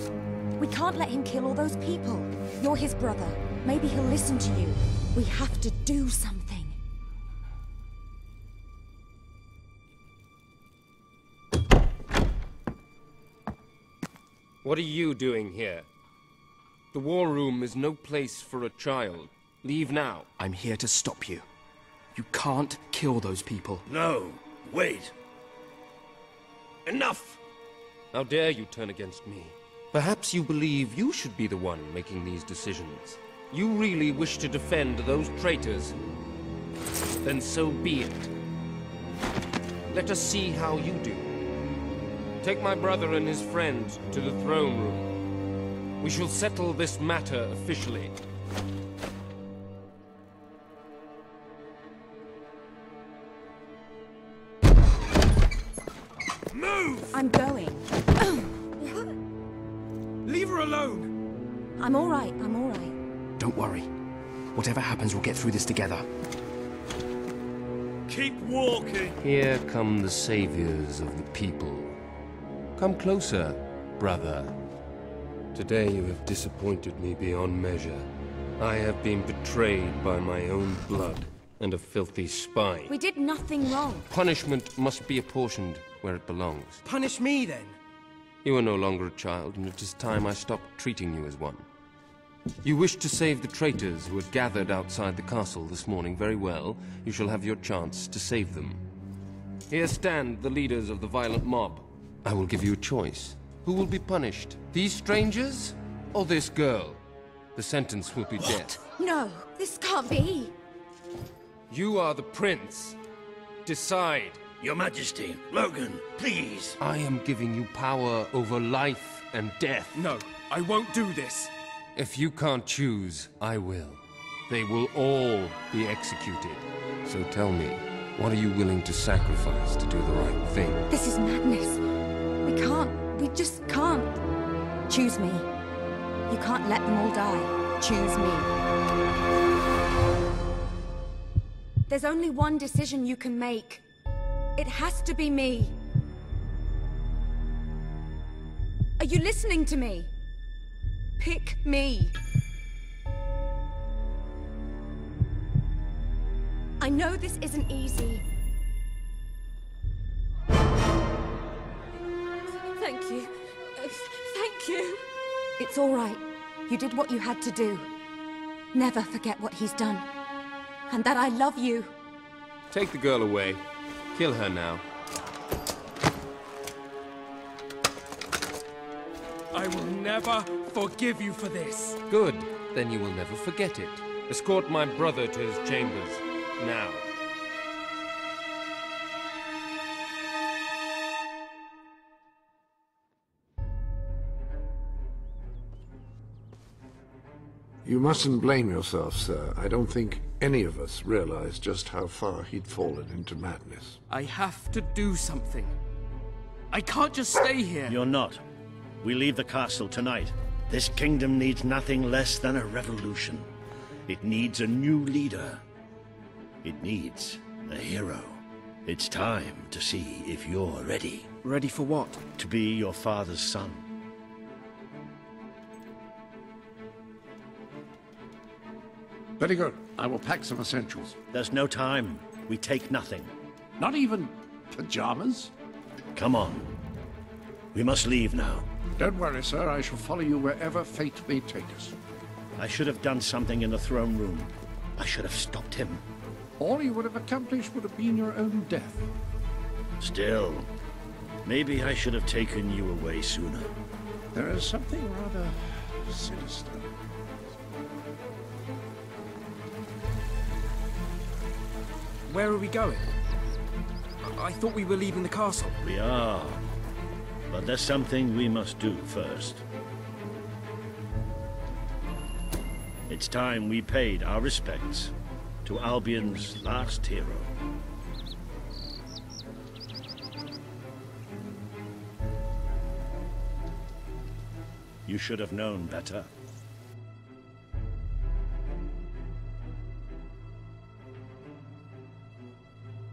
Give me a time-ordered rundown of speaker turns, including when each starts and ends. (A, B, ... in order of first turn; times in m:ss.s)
0:00.6-0:06.8 A
0:14.6-0:15.9 B
0:16.9-0:20.3 B
0:20.4-0:21.4 C
0:22.1-0:23.8 C
0:23.9-0:25.1 D
0:26.8-0:27.4 B
0:28.1-0:36.0 B
0:37.2-0:38.3 B
0:39.9-0:41.4 B
0:42.4-0:45.1 B
0:46.0-0:48.2 B
0:56.5-0:57.1 C
0:57.1-0:59.1 A
1:00.2-1:01.1 C
1:01.8-1:03.0 A
1:03.4-1:03.9 C
1:04.5-1:06.1 C
1:08.1-1:09.2 D
1:09.2-1:11.9 B
1:12.8-1:14.5 B
1:15.5-1:22.9 B
1:22.9-1:24.1 A
1:24.1-1:26.8 B
1:26.8-1:27.8 C
1:28.4-1:31.6 B
1:32.6-1:38.8 B
1:39.7-1:47.0 B
1:47.5-1:48.8 B
1:48.8-1:50.5 A
1:51.7-1:53.0 B
1:53.6-1:54.4 B
1:54.6-1:56.8 D
1:56.8-1:59.9 B
1:59.9-2:01.5 C
2:01.9-2:10.8 B
2:10.9-2:11.8 A
2:12.4-2:14.2 A
2:14.9-2:15.5 A
2:16.3-2:18.5 A
2:21.9-2:23.8 A
2:24.6-2:25.8 A
2:29.0-2:30.1 A
2:31.2-2:32.1 A
2:36.8-2:38.2 A
2:42.6-2:45.0 A
2:45.6-2:47.9 A
2:48.7-2:50.1 A
2:50.9-2:51.9 A
2:52.7-2:53.6 B
2:54.1-2:54.8 B
2:59.5-3:02.0 C
3:02.1-3:07.1 B
3:17.8-3:24.0 E
3:24.1-3:25.7 C
3:26.7-3:28.0 C
3:27.9-3:28.4 D
3:29.0-3:33.5 D
3:34.1-3:35.6 D
3:36.6-3:41.3 D
3:41.4-3:42.2 C
3:42.4-3:43.8 D
3:49.4-3:51.2 E
3:51.3-3:53.3 D
3:53.8-3:55.5 E
3:56.2-3:56.7 D
3:57.7-3:58.6 D
3:59.0-4:01.9 E
4:02.6-4:06.0 D
4:06.6-4:09.1 E
4:10.0-4:10.7 D
4:11.4-4:13.7 D
4:14.3-4:16.9 E
4:22.3-4:23.1 C
4:24.2-4:25.8 C
4:25.8-4:26.6 D
4:27.5-4:29.6 D
4:33.1-4:35.1 D
4:35.6-4:37.5 D
4:45.0-4:46.3 D